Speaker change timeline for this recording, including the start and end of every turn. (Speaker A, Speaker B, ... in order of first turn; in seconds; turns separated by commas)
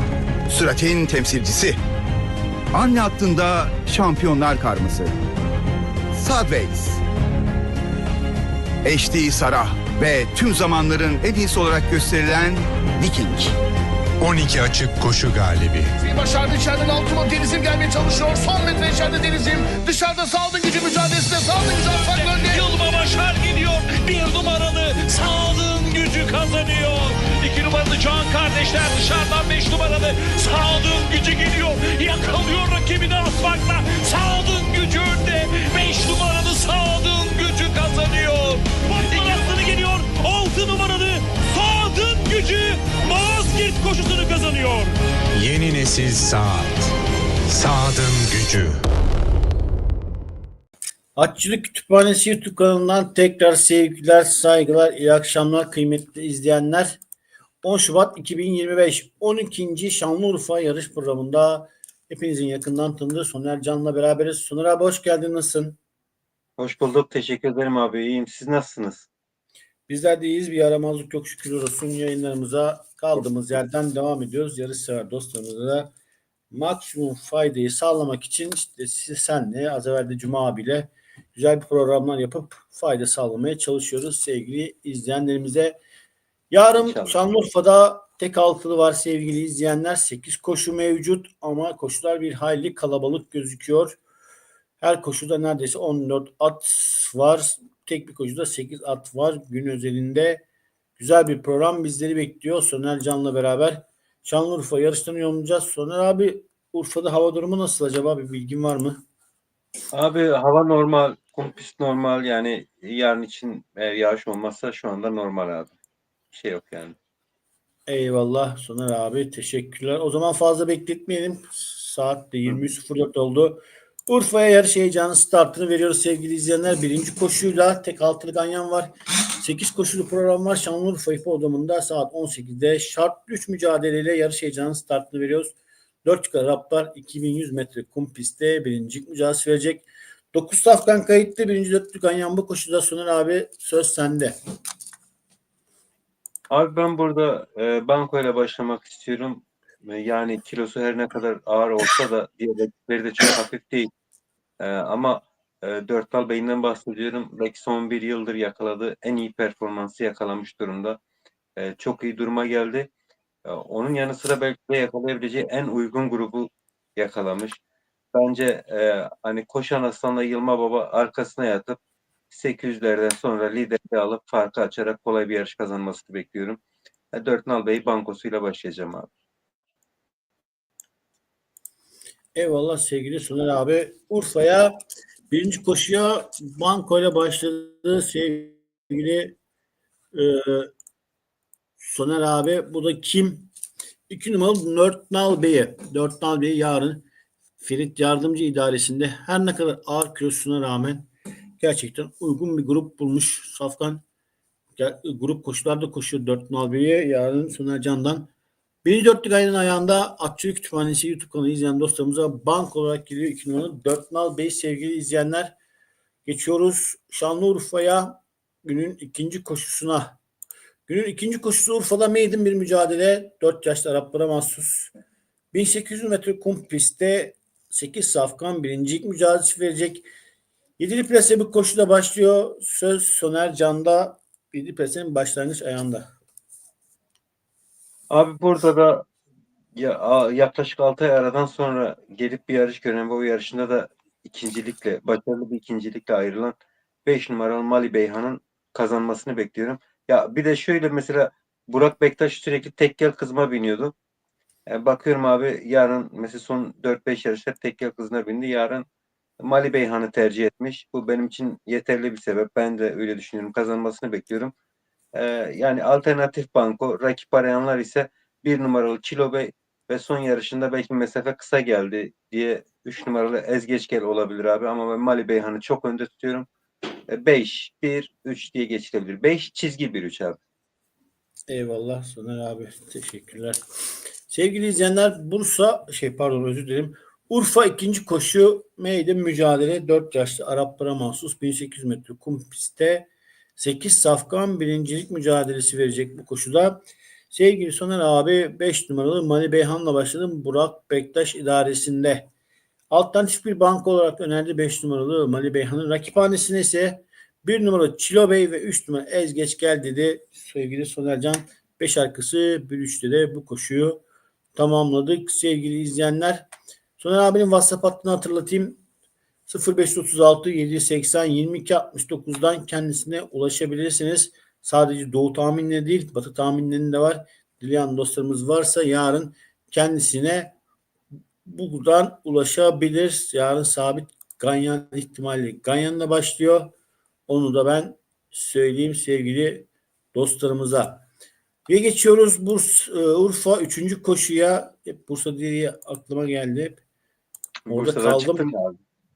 Speaker A: 0.5-1.8, Speaker A: 2.7-5.1, Speaker A: 6.1-7.0, Speaker A: 8.8-13.5, Speaker B: 14.2-15.9, Speaker C: 16.0-22.6, Speaker D: 21.9-45.0, Speaker B: 39.1-39.5, Speaker B: 45.3-46.9, Speaker B: 47.5-48.8, Speaker E: 51.1-57.0, Speaker E: 57.6-65.8, Speaker F: 66.6-69.1, Speaker E: 69.9-75.9, Speaker E: 76.5-85.8, Speaker E: 86.5-94.0, Speaker F: 86.8-87.2, Speaker E: 94.8-100.4, Speaker E: 101.0-109.0, Speaker F: 109.9-115.7, Speaker F: 116.3-117.0, Speaker E: 117.9-144.3, Speaker F: 146.5-153.9, Speaker F: 154.6-161.0, Speaker F: 161.6-162.9, Speaker F: 163.4-167.6, Speaker F: 168.1-171.8, Speaker F: 172.3-176.6, Speaker F: 177.1-179.1, Speaker E: 182.3-184.7, Speaker E: 185.3-189.3, Speaker E: 190.1-190.7, Speaker E: 191.8-193.5, Speaker E: 194.1-197.1, Speaker E: 197.6-204.0, Speaker E: 204.8-208.3, Speaker E: 208.8-215.5, Speaker E: 216.2-220.2, Speaker E: 220.9-224.9, Speaker E: 225.5-230.1, Speaker E: 230.8-236.1, Speaker F: 238.1-239.1, Speaker F: 239.7-253.9, Speaker F: 254.7-258.9, Speaker F: 259.4-264.5, Speaker F: 265.1-276.5, Speaker F: 277.1-280.4, Speaker E: 281.5-283.6, Speaker E: 284.3-302.3, Speaker E: 302.9-314.0, Speaker E: 314.5-316.5, Speaker E: 317.0-318.8, Speaker E: 319.5-330.5, Speaker E: 331.4-336.7, Speaker E: 337.3-341.0, Speaker E: 341.7-346.8, Speaker F: 347.6-348.8, Speaker E: 347.7-348.4